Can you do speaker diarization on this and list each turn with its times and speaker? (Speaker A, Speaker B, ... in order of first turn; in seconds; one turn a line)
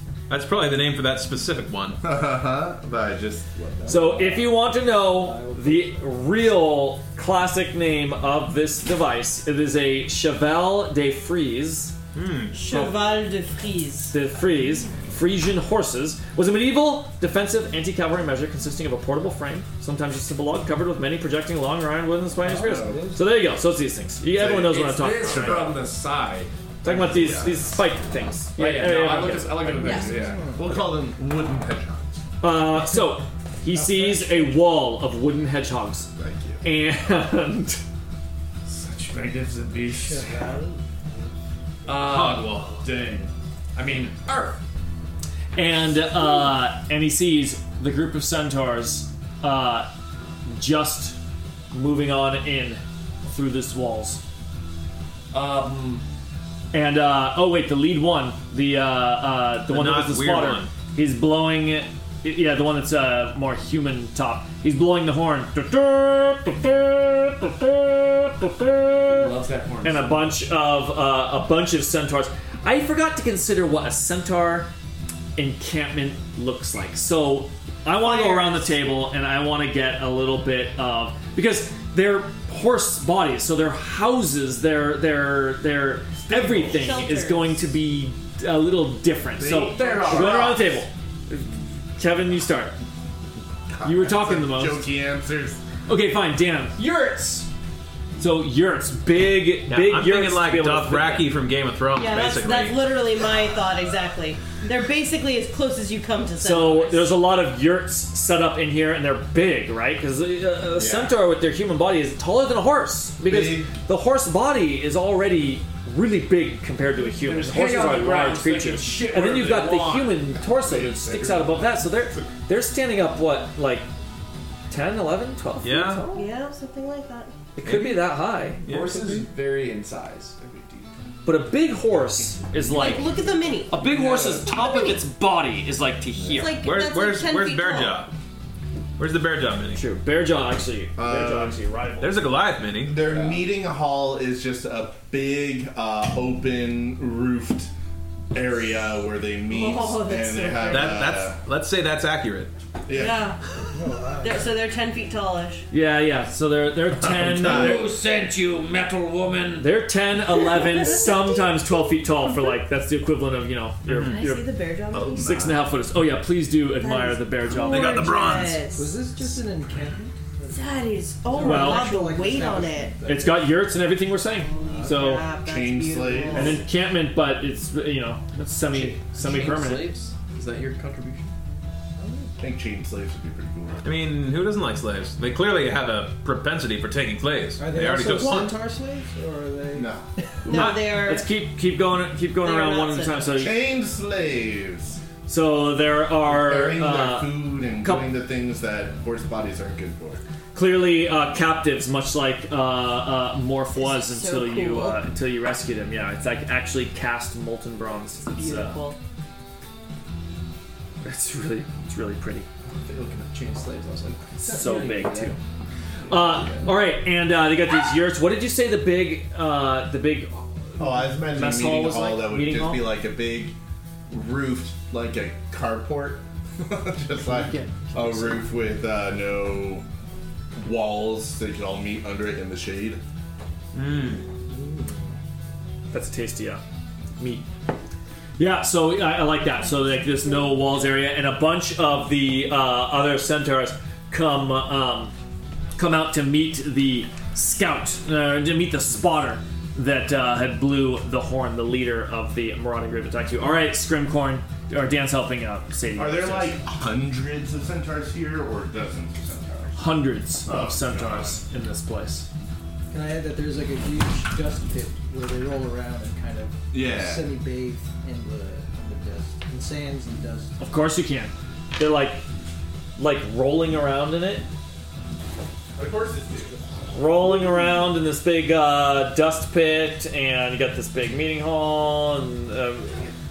Speaker A: 0.3-2.0
Speaker B: 2.0-4.3
Speaker C: 3.9-6.0
Speaker D: 3.9-11.9
Speaker A: 12.1-12.9
Speaker E: 12.5-14.1
Speaker D: 14.1-25.8
Speaker C: 22.4-23.3
Speaker B: 24.3-25.8
Speaker F: 24.5-26.5
Speaker D: 26.8-30.1
Speaker B: 26.9-27.8
Speaker F: 28.6-30.4
Speaker C: 29.6-30.8
Speaker E: 29.8-30.1
Speaker B: 30.5-32.2
Speaker D: 32.4-36.1
Speaker C: 33.7-34.6
Speaker B: 36.2-36.6
Speaker D: 36.6-37.8
Speaker F: 38.6-40.4
Speaker C: 39.9-41.3
Speaker F: 41.9-44.6
Speaker A: 42.0-42.8
Speaker D: 45.5-49.9
Speaker D: 50.5-51.1
Speaker D: 51.7-54.2
Speaker F: 55.3-56.0
Speaker D: 56.7-74.7
Speaker A: 59.7-60.7
Speaker F: 69.1-70.4
Speaker D: 75.3-92.8
Speaker E: 78.0-78.8
Speaker B: 86.2-87.0
Speaker E: 86.7-87.6
Speaker B: 89.4-90.5
Speaker F: 89.4-90.7
Speaker B: 93.7-95.6
Speaker D: 93.8-94.9
Speaker D: 95.9-96.8
Speaker F: 96.8-97.5
Speaker D: 98.2-101.3
Speaker A: 99.7-102.9
Speaker E: 101.9-107.2
Speaker D: 106.4-123.9
Speaker B: 110.8-111.2
Speaker B: 113.2-113.7
Speaker F: 117.2-120.3
Speaker B: 120.3-122.3
Speaker D: 124.7-126.3
Speaker A: 125.6-126.0
Speaker E: 126.1-127.3
Speaker D: 127.5-128.6
Speaker A: 127.6-128.1
Speaker A: 128.6-129.1
Speaker F: 128.7-130.9
Speaker D: 131.2-133.1
Speaker E: 132.7-133.8
Speaker D: 133.7-136.6
Speaker F: 133.8-134.5
Speaker E: 134.5-135.0
Speaker E: 136.3-138.1
Speaker A: 136.6-138.1
Speaker A: 139.0-139.8
Speaker D: 139.7-142.2
Speaker B: 141.0-141.6
Speaker A: 142.0-142.9
Speaker B: 142.8-147.7
Speaker F: 143.1-143.4
Speaker B: 148.3-151.4
Speaker E: 149.5-151.1
Speaker A: 150.7-152.5
Speaker B: 152.8-153.3
Speaker E: 152.9-153.4
Speaker C: 153.7-154.5
Speaker E: 154.2-155.7
Speaker D: 155.7-157.9
Speaker B: 157.1-157.9
Speaker G: 157.7-159.6
Speaker D: 159.6-164.4
Speaker E: 160.7-161.5
Speaker A: 163.9-164.2
Speaker E: 163.9-165.4
Speaker B: 164.9-165.6
Speaker D: 165.2-168.2
Speaker E: 166.8-168.9
Speaker A: 167.5-168.6
Speaker C: 168.7-173.6
Speaker E: 170.5-173.0
Speaker D: 171.4-171.9
Speaker D: 173.1-175.2
Speaker E: 174.4-176.6
Speaker C: 174.6-175.1
Speaker B: 175.4-176.6
Speaker D: 176.3-179.9
Speaker F: 178.7-181.3
Speaker C: 182.0-182.3
Speaker B: 182.4-183.8
Speaker A: 183.8-188.5
Speaker C: 187.6-189.9
Speaker B: 188.0-188.5
Speaker B: 189.7-190.1
Speaker E: 190.4-191.3
Speaker D: 190.5-193.6
Speaker E: 192.4-193.3
Speaker B: 193.3-195.0
Speaker D: 195.3-198.1
Speaker B: 196.2-200.2
Speaker D: 200.5-208.8
Speaker E: 203.8-205.0
Speaker E: 208.3-209.0
Speaker D: 211.0-212.5
Speaker F: 212.7-215.3
Speaker D: 214.4-215.4
Speaker D: 216.1-222.9
Speaker F: 216.1-216.7
Speaker B: 220.8-223.6
Speaker B: 224.1-229.8
Speaker C: 227.2-228.4
Speaker B: 230.6-233.0
Speaker A: 233.7-234.2
Speaker C: 234.5-235.1
Speaker D: 235.9-236.6
Speaker D: 237.2-237.4
Speaker D: 238.4-245.1
Speaker D: 245.8-256.6
Speaker B: 255.9-261.4
Speaker D: 259.8-262.3
Speaker C: 262.9-270.6
Speaker B: 266.7-267.2
Speaker D: 270.6-272.2
Speaker D: 273.0-274.4
Speaker B: 275.8-276.6
Speaker D: 276.9-283.1